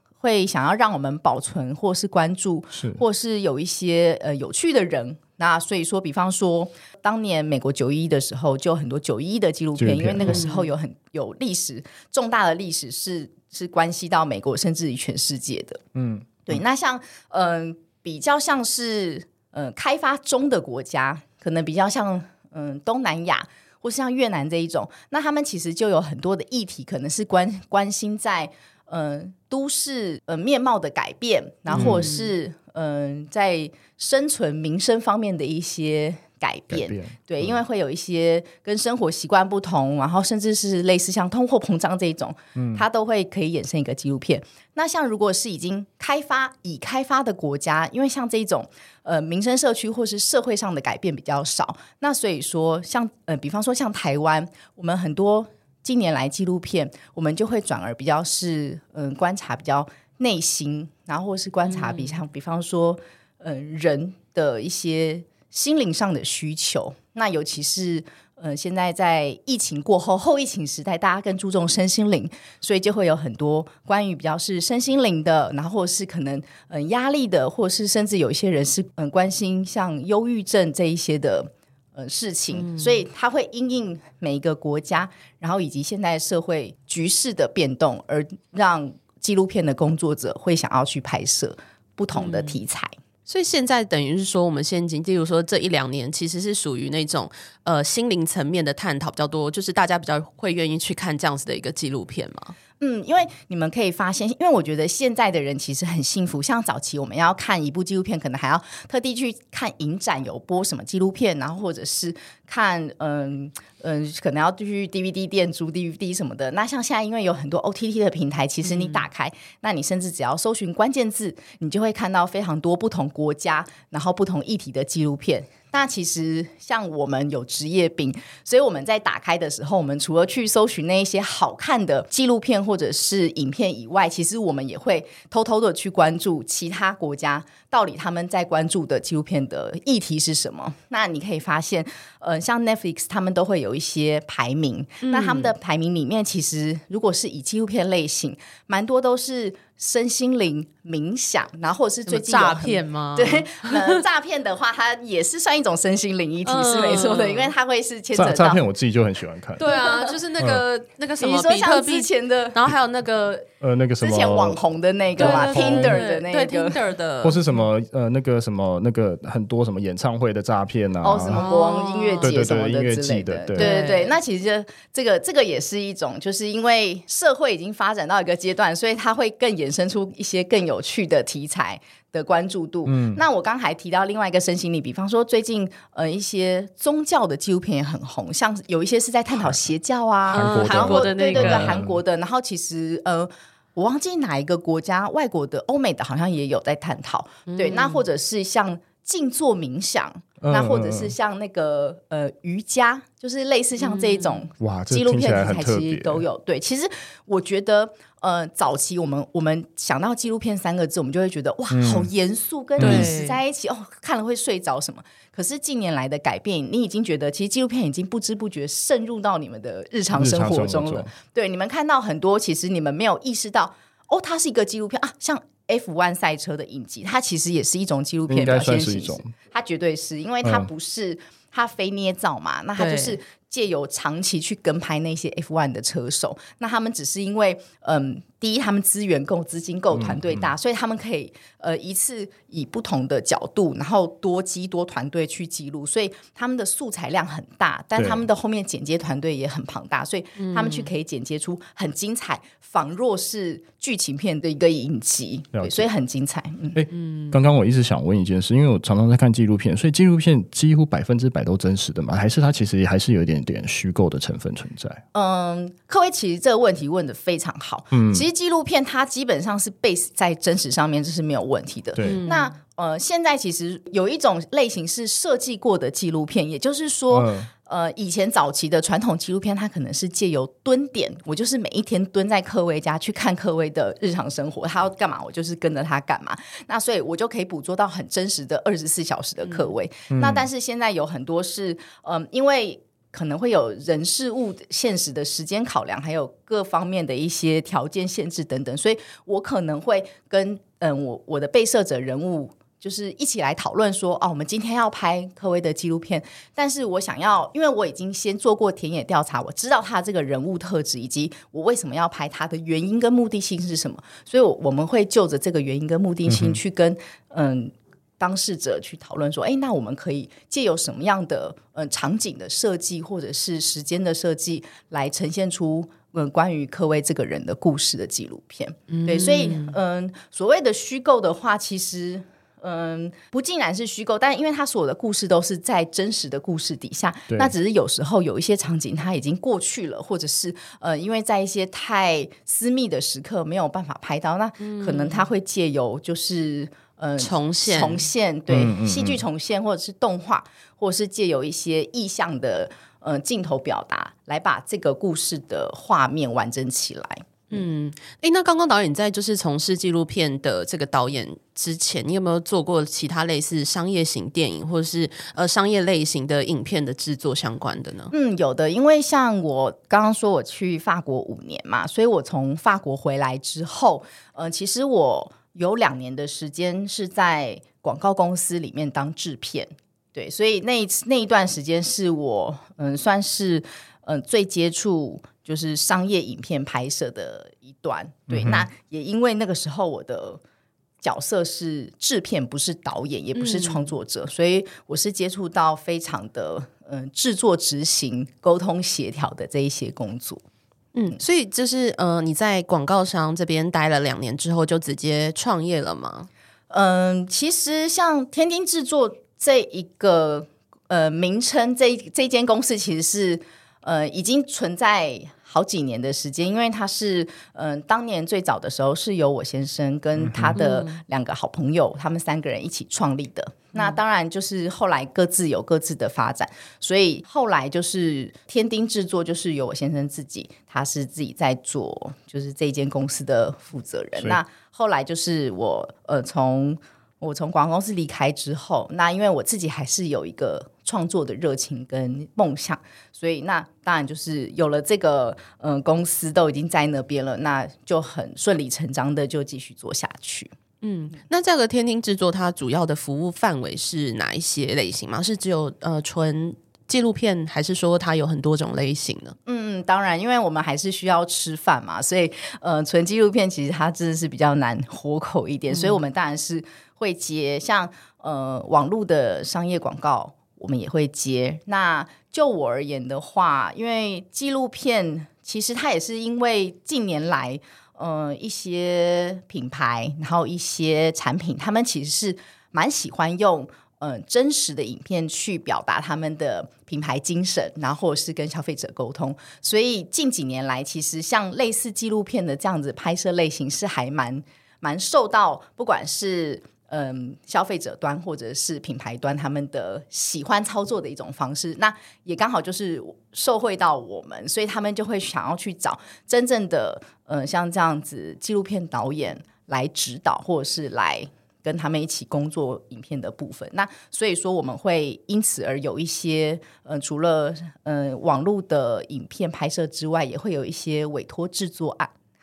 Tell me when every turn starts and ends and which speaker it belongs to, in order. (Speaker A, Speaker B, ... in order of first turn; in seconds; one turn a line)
Speaker A: 0.2-15.8
Speaker B: 2.7-3.0
Speaker B: 9.8-10.4
Speaker C: 10.2-10.7
Speaker B: 15.9-16.3
Speaker A: 16.4-92.9
Speaker C: 31.7-32.3
Speaker B: 31.7-32.0
Speaker B: 36.7-37.6
Speaker B: 42.5-42.8
Speaker C: 61.7-62.1
Speaker C: 82.5-83.0
Speaker C: 92.2-92.6
Speaker C: 93.3-102.5
Speaker A: 102.8-158.6
Speaker C: 118.7-119.0
Speaker C: 145.0-145.5
Speaker C: 152.1-154.0
Speaker C: 156.4-157.5
Speaker B: 158.1-159.7
Speaker C: 159.6-163.4
Speaker A: 159.6-160.2
Speaker B: 160.4-160.6
Speaker A: 161.2-162.6
Speaker B: 163.6-164.6
Speaker A: 164.0-166.8
Speaker B: 165.2-166.0
Speaker C: 165.2-167.6
Speaker B: 167.2-171.6
Speaker A: 171.0-256.8
Speaker C: 171.3-172.3
Speaker B: 172.2-173.7
Speaker C: 173.6-174.1
Speaker B: 182.8-183.2
Speaker B: 190.3-192.0
Speaker C: 190.3-191.7
Speaker C: 197.5-198.0
Speaker B: 200.4-201.1
Speaker C: 203.8-204.4
Speaker B: 204.6-206.2
Speaker B: 211.7-212.1
Speaker B: 212.8-213.1
Speaker C: 212.8-213.4
Speaker B: 220.1-221.1
Speaker B: 228.3-229.3
Speaker B: 230.4-230.7
Speaker C: 232.8-233.2
Speaker B: 239.9-240.5
Speaker B: 247.9-248.3
Speaker C: 250.4-250.9
Speaker B: 255.5-255.9
Speaker B: 256.7-265.0
Speaker C: 256.9-257.3
Speaker A: 265.1-357.6
Speaker B: 267.9-268.2
Speaker B: 272.0-272.2
Speaker C: 272.0-272.5
Speaker B: 277.1-277.5
Speaker B: 290.1-290.4
Speaker B: 316.3-316.6
Speaker C: 328.9-329.7
Speaker C: 344.6-345.2
Speaker C: 347.2-348.1
Speaker B: 348.5-349.2
Speaker C: 357.5-368.1
Speaker A: 368.1-390.4
Speaker B: 388.3-388.7
Speaker A: 391.0-400.4
Speaker C: 393.3-393.9
Speaker C: 400.9-406.3
Speaker A: 406.7-450.5
Speaker B: 420.2-420.6
Speaker C: 420.5-420.9
Speaker C: 450.8-459.4
Speaker A: 459.4-522.1
Speaker C: 465.7-466.0